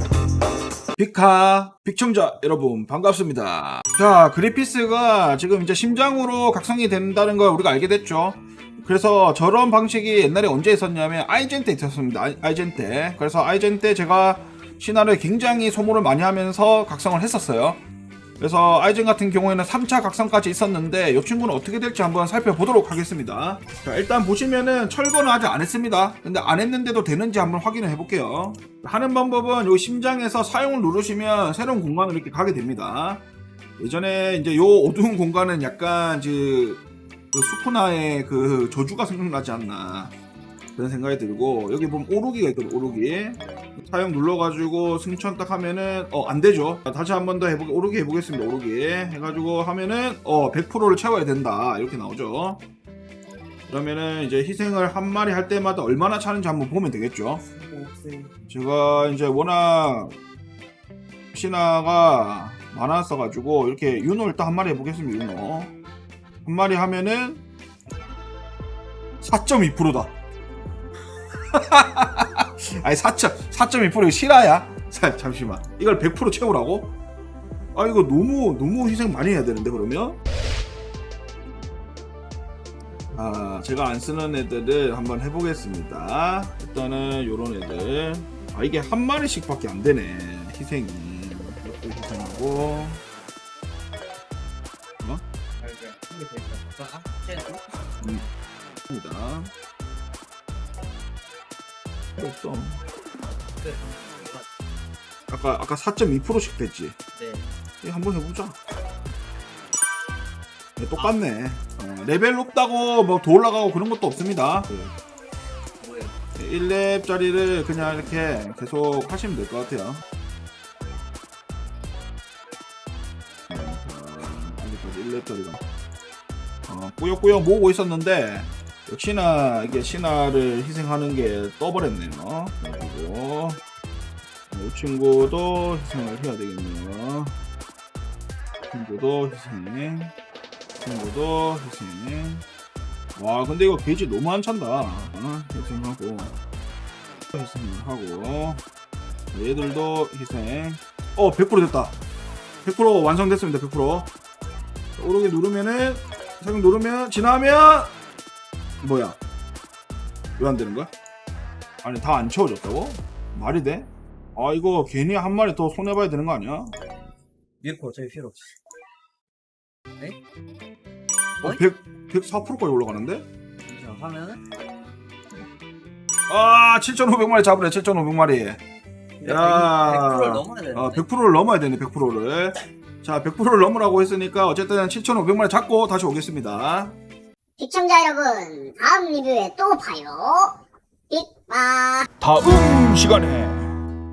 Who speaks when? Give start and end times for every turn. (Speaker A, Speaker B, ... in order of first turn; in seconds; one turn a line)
Speaker A: 0.9-17.8
Speaker A: 18.4-33.2
Speaker A: 33.8-40.1
Speaker A: 40.8-52.6
Speaker A: 53.7-57.4
Speaker B: 57.6-58.3
Speaker A: 58.5-60.2
Speaker A: 61.3-65.7
Speaker A: 66.4-67.4
Speaker A: 69.2-70.1
Speaker A: 71.5-76.9
Speaker A: 77.7-80.2
Speaker A: 83.1-93.0
Speaker B: 95.6-97.6
Speaker A: 98.0-98.3
Speaker A: 98.9-99.5
Speaker A: 102.2-102.8
Speaker B: 103.6-104.5
Speaker A: 105.3-107.0
Speaker B: 107.1-107.5
Speaker A: 107.8-108.5
Speaker A: 110.8-114.9
Speaker B: 115.8-116.1
Speaker A: 116.4-120.0
Speaker A: 123.5-125.6
Speaker A: 126.7-133.6
Speaker A: 134.5-137.4
Speaker A: 138.7-140.1
Speaker A: 140.8-142.4
Speaker A: 143.2-146.3
Speaker A: 147.3-148.6
Speaker A: 149.3-152.0
Speaker A: 152.6-154.1
Speaker A: 155.0-157.9
Speaker A: 158.8-159.2
Speaker A: 160.4-160.9
Speaker A: 161.8-166.7
Speaker B: 167.6-168.5
Speaker A: 171.4-173.2
Speaker B: 173.7-174.4
Speaker A: 176.3-178.6
Speaker B: 179.2-181.1
Speaker A: 179.2-186.9
Speaker C: 187.6-190.6
Speaker C: 191.1-192.1
Speaker A: 192.2-193.8